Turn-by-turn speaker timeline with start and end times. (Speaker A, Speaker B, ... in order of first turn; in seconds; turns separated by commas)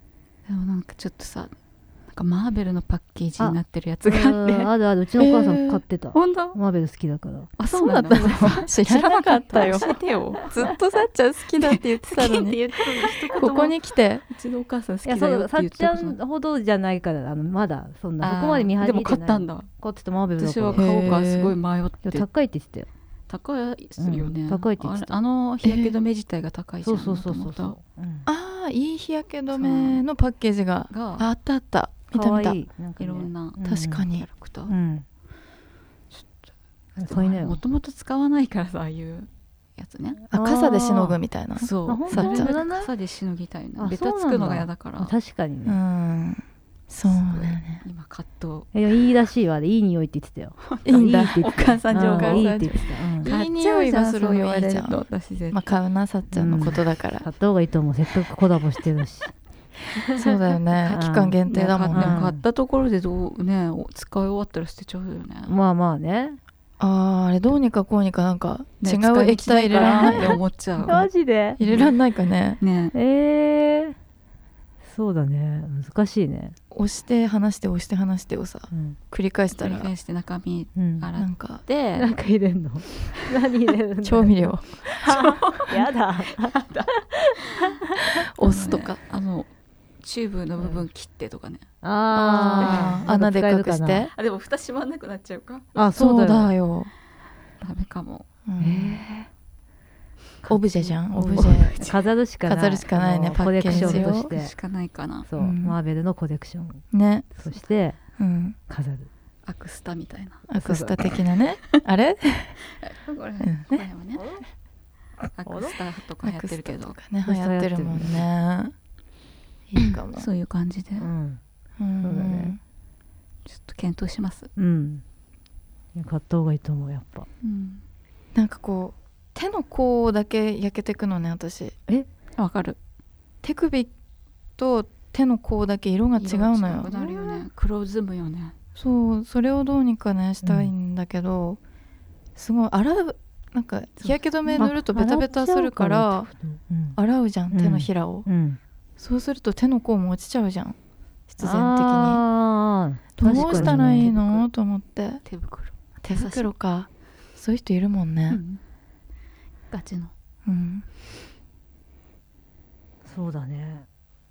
Speaker A: 0.5-1.5, Speaker A: 2.1-4.7, Speaker B: 3.4-7.6, Speaker C: 5.2-5.8, Speaker A: 6.1-6.6, Speaker A: 7.6-10.7, Speaker C: 7.6-9.9, Speaker C: 10.5-14.2, Speaker A: 11.5-16.2, Speaker B: 15.0-21.1, Speaker A: 18.2-19.7, Speaker A: 20.4-22.3, Speaker C: 20.8-21.5, Speaker B: 22.0-22.9, Speaker A: 23.3-27.8, Speaker B: 24.0-25.1, Speaker C: 25.6-25.9, Speaker B: 26.8-28.3, Speaker C: 28.2-32.6, Speaker A: 29.5-30.0, Speaker A: 30.9-31.3, Speaker B: 32.1-34.1, Speaker A: 33.0-34.8, Speaker C: 33.6-34.3, Speaker B: 34.7-35.0, Speaker A: 36.1-36.5, Speaker B: 37.0-37.6, Speaker A: 37.0-40.3, Speaker B: 40.3-41.2, Speaker C: 40.3-42.5, Speaker A: 41.6-45.1, Speaker B: 41.8-42.9, Speaker B: 43.8-45.8, Speaker C: 45.6-47.8, Speaker A: 47.0-48.7, Speaker B: 48.7-53.3, Speaker A: 50.6-55.7, Speaker C: 50.8-57.3, Speaker B: 56.3-59.3, Speaker C: 60.1-62.2, Speaker B: 60.9-62.4, Speaker A: 61.5-65.6, Speaker B: 65.5-66.4, Speaker C: 66.8-71.0, Speaker A: 68.8-71.1, Speaker B: 69.8-71.6, Speaker C: 71.6-72.6, Speaker A: 71.6-71.9, Speaker A: 72.6-72.9, Speaker B: 72.9-74.0, Speaker B: 74.8-76.5, Speaker C: 76.7-79.9, Speaker B: 78.7-79.0, Speaker A: 79.5-82.1, Speaker B: 80.7-81.1, Speaker C: 81.2-81.6, Speaker B: 82.0-88.2, Speaker C: 84.0-85.3, Speaker A: 85.0-87.8, Speaker C: 88.0-89.0, Speaker A: 88.4-89.5, Speaker A: 90.0-91.7, Speaker B: 90.6-90.8, Speaker B: 91.8-94.1, Speaker C: 92.1-94.1, Speaker A: 92.4-93.1, Speaker A: 94.1-95.7, Speaker B: 95.7-96.5, Speaker C: 95.9-96.9, Speaker A: 97.6-98.3, Speaker C: 98.5-99.0, Speaker B: 98.6-99.3, Speaker C: 100.5-101.8, Speaker B: 100.5-104.5, Speaker A: 101.1-102.0, Speaker C: 102.4-104.3, Speaker A: 103.6-105.3, Speaker B: 105.2-106.8, Speaker C: 105.4-105.8, Speaker C: 106.9-107.3, Speaker B: 107.4-108.0, Speaker C: 108.2-108.6, Speaker B: 108.7-109.1, Speaker A: 109.5-111.2, Speaker C: 110.5-112.6, Speaker A: 112.8-114.3, Speaker C: 113.4-113.8, Speaker B: 114.2-114.4, Speaker A: 115.3-117.0, Speaker B: 115.4-115.8, Speaker C: 116.2-118.7, Speaker B: 117.2-118.2, Speaker C: 119.7-120.3, Speaker A: 120.0-121.1, Speaker B: 121.0-121.4, Speaker C: 121.8-122.6, Speaker B: 122.0-122.5, Speaker A: 123.5-124.5, Speaker B: 124.5-125.0, Speaker B: 125.9-127.3, Speaker A: 127.4-127.8, Speaker C: 128.3-131.8, Speaker A: 132.4-132.8, Speaker C: 133.4-133.9, Speaker C: 134.6-137.1, Speaker A: 136.2-138.5, Speaker B: 137.0-137.4, Speaker C: 138.7-141.6, Speaker B: 140.4-140.7, Speaker C: 142.3-146.3, Speaker A: 144.0-144.7, Speaker B: 144.6-147.0, Speaker C: 146.9-148.3, Speaker B: 147.5-148.6, Speaker C: 149.0-150.8, Speaker C: 151.3-152.2, Speaker B: 151.4-154.4, Speaker C: 153.2-155.2, Speaker A: 153.3-154.1, Speaker A: 155.2-156.5, Speaker C: 156.0-158.4, Speaker A: 158.3-158.6, Speaker A: 159.7-160.1, Speaker C: 160.4-160.8, Speaker B: 163.0-163.9